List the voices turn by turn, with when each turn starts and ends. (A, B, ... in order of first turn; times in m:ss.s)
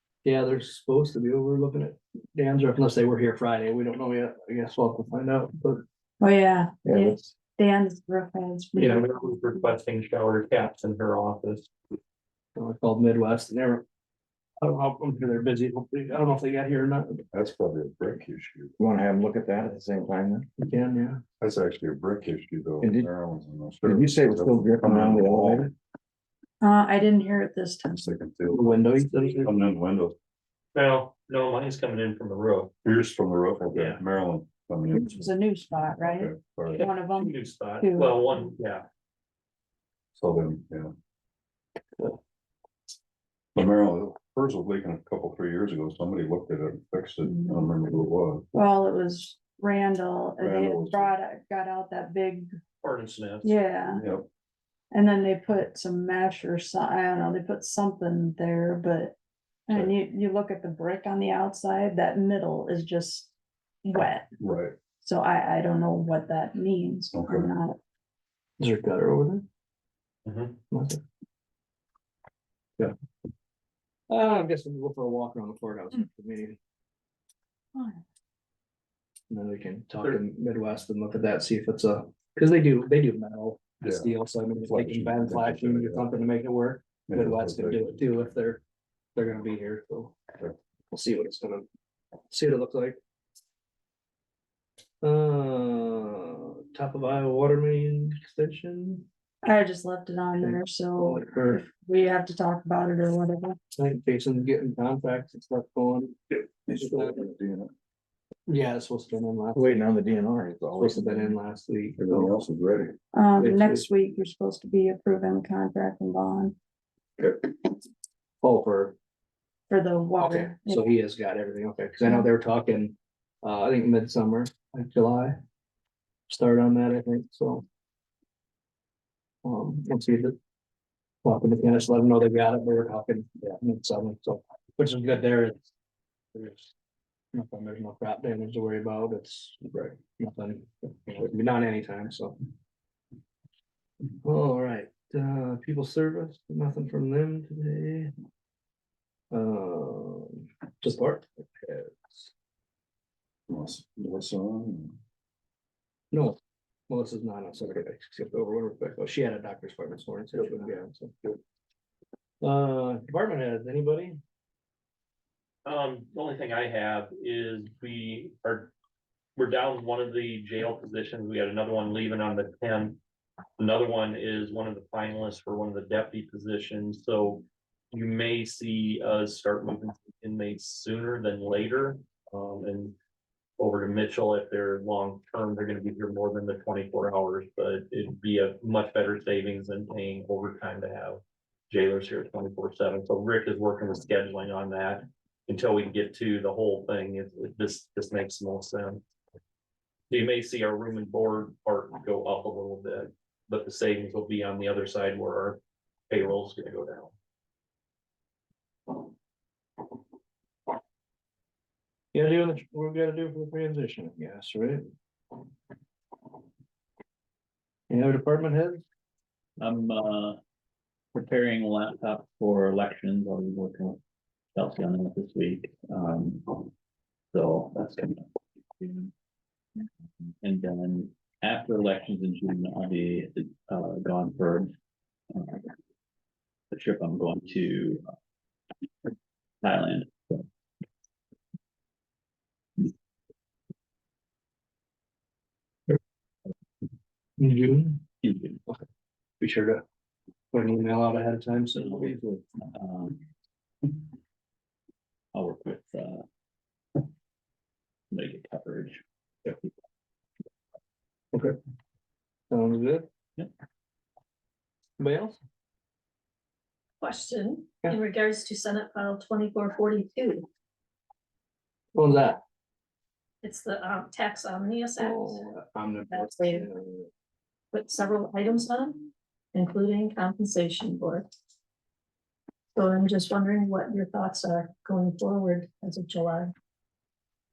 0:00.2-0:05.8 A
0:06.2-0:09.7 B
0:06.8-0:07.3 C
0:08.8-0:11.7 D
0:12.6-0:13.8 A
0:14.6-0:17.2 A
0:17.3-0:18.7 E
0:18.8-0:20.5 C
0:20.6-0:21.2 A
0:21.4-0:25.7 E
0:22.8-0:23.1 C
0:23.8-0:25.7 C
0:26.6-0:28.2 B
0:27.9-0:28.8 E
0:28.5-0:29.5 A
0:29.4-0:30.2 E
0:30.8-0:32.7 D
0:32.8-0:35.3 E
0:33.7-0:34.0 D
0:34.9-0:38.2 B
0:36.0-0:36.8 E
0:36.7-0:38.8 D
0:40.2-0:40.9 E
0:43.6-0:48.5 E
0:47.3-0:47.6 B
0:48.5-0:52.5 B
0:50.4-0:51.1 E
0:52.8-0:53.6 D
0:53.4-0:54.0 B
0:53.9-0:54.3 E
0:54.9-0:59.2 B
0:59.7-1:03.3 B
1:03.8-1:04.3 B
1:04.4-1:04.8 E
1:05.0-1:07.8 B
1:07.1-1:07.5 E
1:08.6-1:09.5 A
1:10.3-1:10.6 D
1:10.7-1:11.0 A
1:14.1-1:16.6 A
1:19.3-1:28.6 A
1:23.8-1:26.1 E
1:27.1-1:28.0 E
1:29.2-1:30.3 A
1:30.9-1:31.7 A
1:32.3-1:33.0 A
1:35.0-1:39.1 A
1:39.4-1:43.6 B
1:40.4-1:41.7 A
1:43.7-1:47.3 A
1:46.7-1:47.7 E
1:48.5-1:49.8 A
1:49.6-1:51.1 C
1:50.8-1:52.4 A
1:52.0-1:53.0 E
1:53.1-1:56.6 B
1:53.4-1:53.9 A
1:58.4-1:59.0 A
1:59.7-2:00.8 B
2:00.2-2:05.4 A
2:06.3-2:07.6 A
2:09.4-2:10.4 A
2:11.2-2:15.7 A
2:16.3-2:16.7 A
2:17.3-2:22.4 A
2:24.2-2:28.1 A
2:29.3-2:32.3 A
2:33.5-2:35.0 E
2:36.1-2:36.4 A
2:36.9-2:41.4 A
2:42.4-2:44.2 A
2:45.6-2:48.7 D
2:49.4-2:53.0 D
2:53.6-3:03.0 D
3:03.6-3:19.0 D
3:20.1-3:27.1 D
3:32.1-3:34.8 A
3:37.9-3:38.8 A
3:39.6-3:40.4 F
3:41.1-3:44.0 F
3:44.6-3:46.7 F
3:47.3-3:48.3 F
3:48.8-3:49.1 F
3:50.4-3:54.7 F
3:55.3-3:55.7 F
3:56.7-3:58.0 F
3:59.6-4:00.4 F
4:07.4-4:08.1 A
4:08.2-4:08.6 F
4:09.4-4:09.8 A
4:10.5-4:12.3 A
4:11.7-4:13.2 F
4:15.3-4:16.2 F
4:18.1-4:19.7 F
4:22.5-4:23.1 A
4:25.0-4:25.4 A
4:27.0-4:30.5 G
4:32.0-4:32.4 A
4:33.4-4:35.4 G
4:35.0-4:37.1 A
4:36.1-4:36.7 G
4:37.7-4:41.3 G
4:42.8-4:46.5 G